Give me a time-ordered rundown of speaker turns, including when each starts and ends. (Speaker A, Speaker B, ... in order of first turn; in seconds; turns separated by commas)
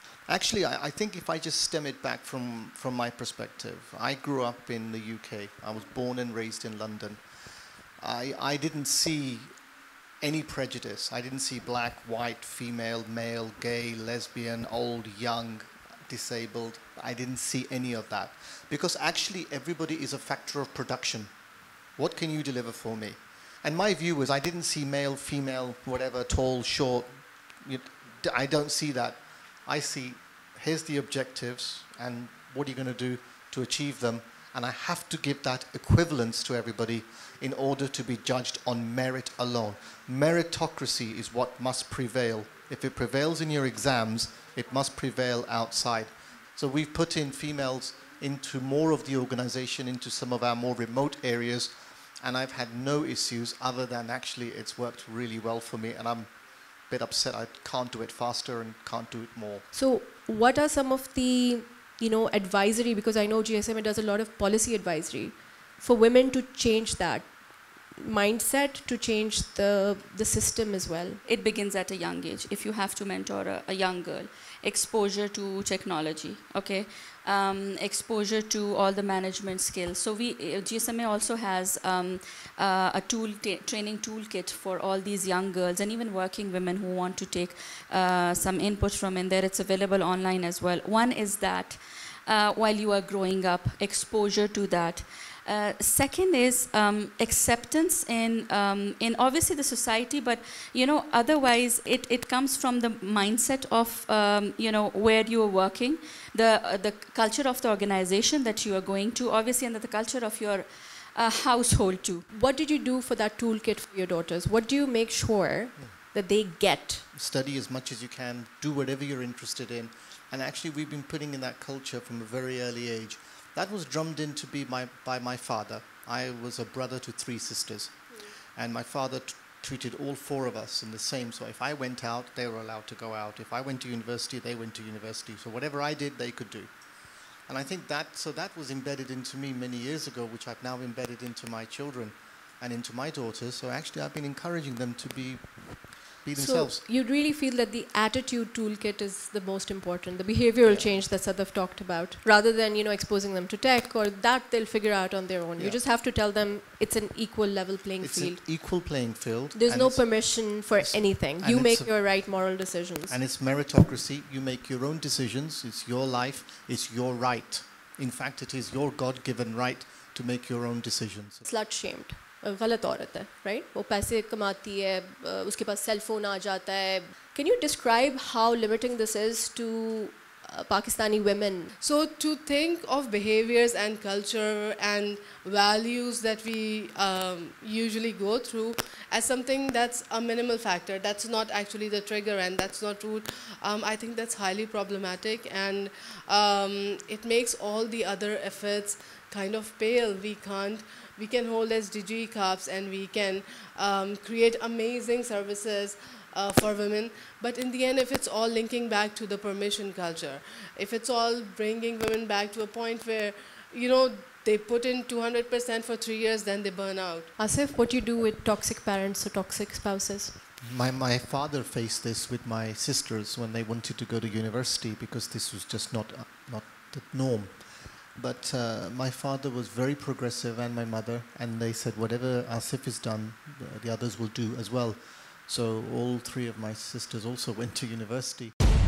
Speaker A: 0.3-9.5, Speaker A: 10.2-21.3, Speaker A: 22.0-59.7, Speaker B: 59.7-67.3, Speaker B: 68.0-71.2, Speaker C: 71.2-112.2, Speaker B: 112.3-117.0, Speaker A: 117.1-136.7, Speaker A: 137.5-146.8, Speaker B: 146.3-158.4, Speaker A: 150.6-151.1, Speaker A: 155.6-155.8, Speaker A: 158.0-162.2, Speaker B: 159.6-163.2, Speaker A: 163.1-171.4, Speaker B: 171.5-181.7, Speaker D: 181.8-217.3, Speaker B: 217.4-220.3, Speaker A: 220.6-238.5